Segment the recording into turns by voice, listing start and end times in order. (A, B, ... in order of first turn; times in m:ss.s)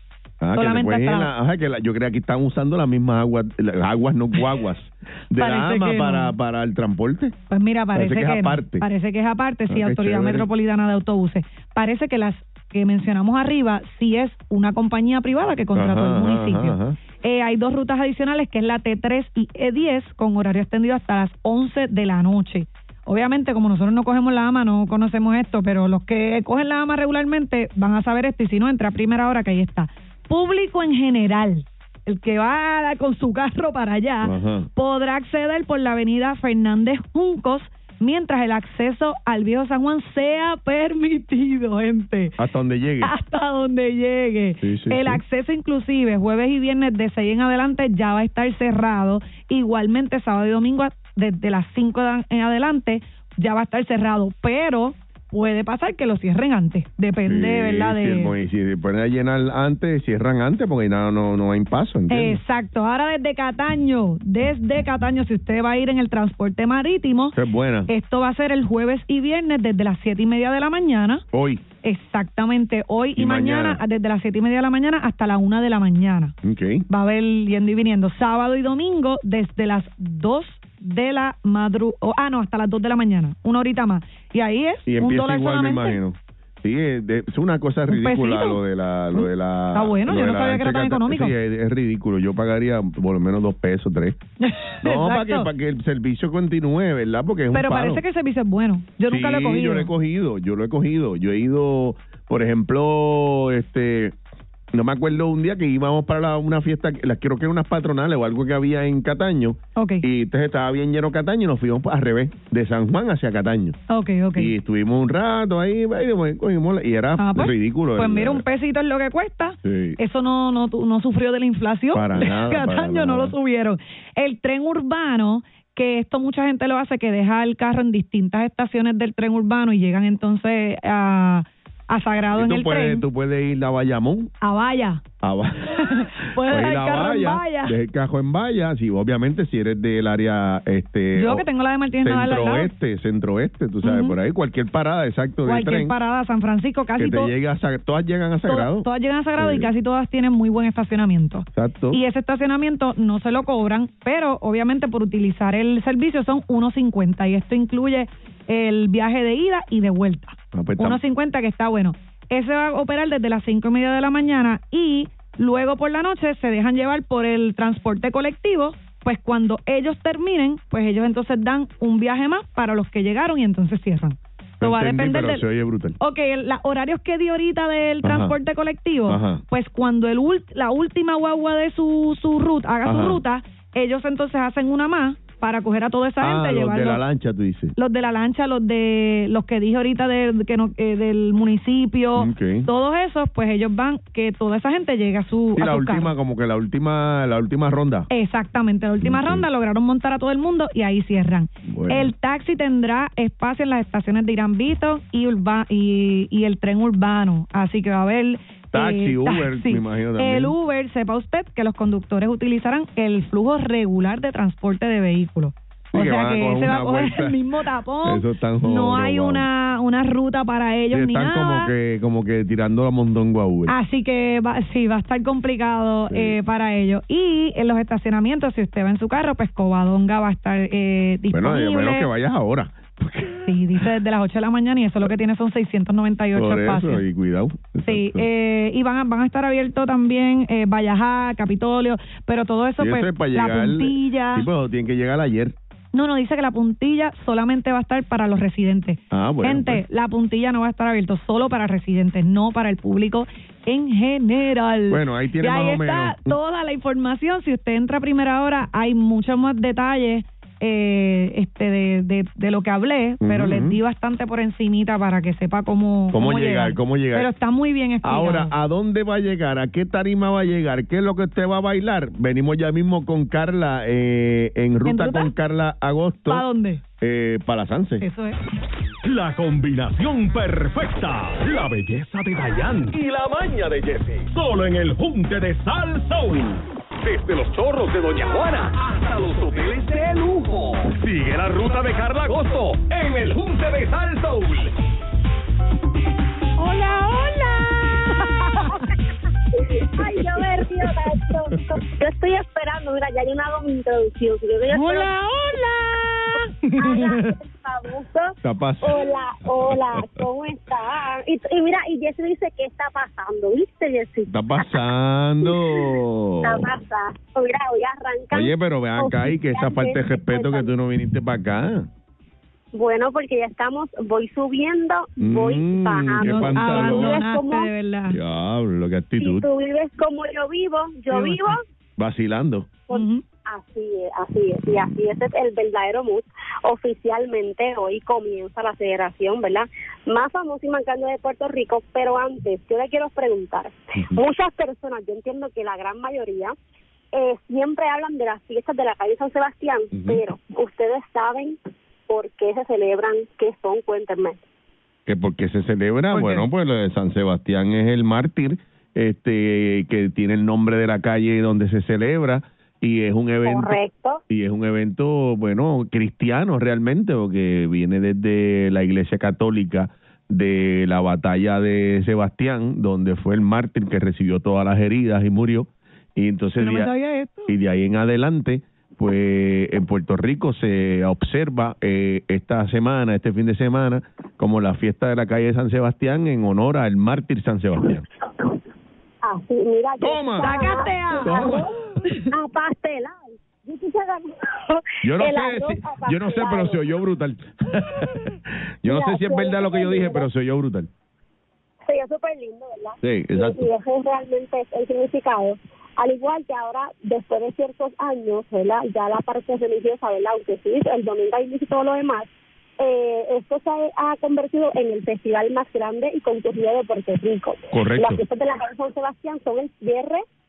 0:00.4-0:07.4 A
0:00.6-0:01.3 B
0:05.4-0:06.3 B
0:07.5-0:42.4 B
0:07.9-0:08.9 A
0:09.7-0:10.5 A
0:15.8-0:17.0 A
0:34.2-0:34.7 A
0:42.4-0:43.1 A
0:43.0-0:58.3 B
0:44.6-0:45.2 A
0:57.2-1:02.4 A
1:02.1-1:07.4 B
1:07.3-1:07.9 A
1:07.9-1:11.2 B
1:11.3-1:11.6 A
1:11.8-1:16.3 B
1:13.2-1:13.8 A
1:16.4-1:16.9 A
1:16.9-1:26.0 B
1:24.9-1:34.2 A
1:27.9-1:28.6 B
1:29.2-1:31.3 B
1:34.4-1:35.5 B
1:34.8-1:38.0 A
1:37.5-1:39.9 B
1:39.1-1:44.2 A
1:44.7-1:53.8 A
1:49.8-1:50.0 B
1:53.9-1:54.5 B
1:54.4-1:58.4 A
1:57.2-2:13.1 B
1:59.6-2:00.0 A
2:01.9-2:03.4 A
2:12.3-2:14.3 A
2:14.4-2:15.0 B
2:15.2-2:21.5 A
2:15.7-2:17.8 B
2:21.2-2:22.7 B
2:22.0-2:26.0 A
2:23.8-2:24.2 B
2:25.4-2:27.3 B
2:27.0-2:29.7 A
2:28.5-2:55.4 B
2:31.5-2:32.0 A
2:40.5-2:41.0 A
2:54.6-2:56.0 A
2:56.0-3:07.0 B
2:58.0-2:58.4 A
2:59.1-2:59.4 A
3:02.8-3:03.2 A
3:06.2-3:07.8 A
3:07.8-3:16.1 B
3:12.2-3:12.7 A
3:15.6-3:18.1 A
3:18.1-3:41.7 B
3:19.0-3:19.4 A
3:21.6-3:22.1 A
3:28.7-3:30.6 A
3:35.9-3:39.5 A
3:40.9-3:43.8 A
3:43.7-3:52.1 B
3:46.1-3:46.4 A
3:51.3-3:53.9 A
3:53.4-3:57.0 B
3:56.3-3:58.3 A
3:57.9-4:04.5 B
4:02.8-4:05.6 A
4:05.9-4:28.5 B
4:09.1-4:09.8 A
4:14.9-4:16.4 A
4:23.2-4:23.8 A
4:26.1-4:27.3 A
4:28.0-4:36.5 A
4:34.8-4:35.3 B
4:36.3-4:36.8 B
4:37.0-4:38.0 A
4:38.0-4:38.4 B
4:39.0-4:54.7 C
4:56.6-4:58.8 B
4:59.5-5:05.2 D
5:04.7-5:07.4 B
5:06.8-5:14.9 D
5:08.4-5:10.2 A
5:14.3-5:16.7 A
5:15.4-5:20.7 D
5:18.3-5:21.9 A
5:22.7-5:27.7 D
5:25.2-5:27.2 A
5:26.2-5:28.2 B
5:28.1-5:29.5 A
5:29.2-5:31.6 D
5:31.1-5:31.6 B
5:32.0-5:32.8 A
5:32.9-5:46.6 D
5:32.9-5:33.2 B
5:47.1-5:54.4 D
5:49.9-5:50.2 A
5:55.1-6:03.8 A
5:56.1-5:56.5 B
6:03.4-6:04.2 D
6:04.3-6:16.9 A
6:16.6-6:17.5 B
6:17.5-6:28.1 A
6:29.2-6:31.7 D
6:30.0-6:32.0 A
6:30.4-6:32.3 B
6:32.3-6:36.8 D
6:35.0-6:40.9 A
6:38.9-6:40.3 D
6:41.8-7:00.2 D
6:43.0-6:43.7 A
6:57.7-6:58.2 A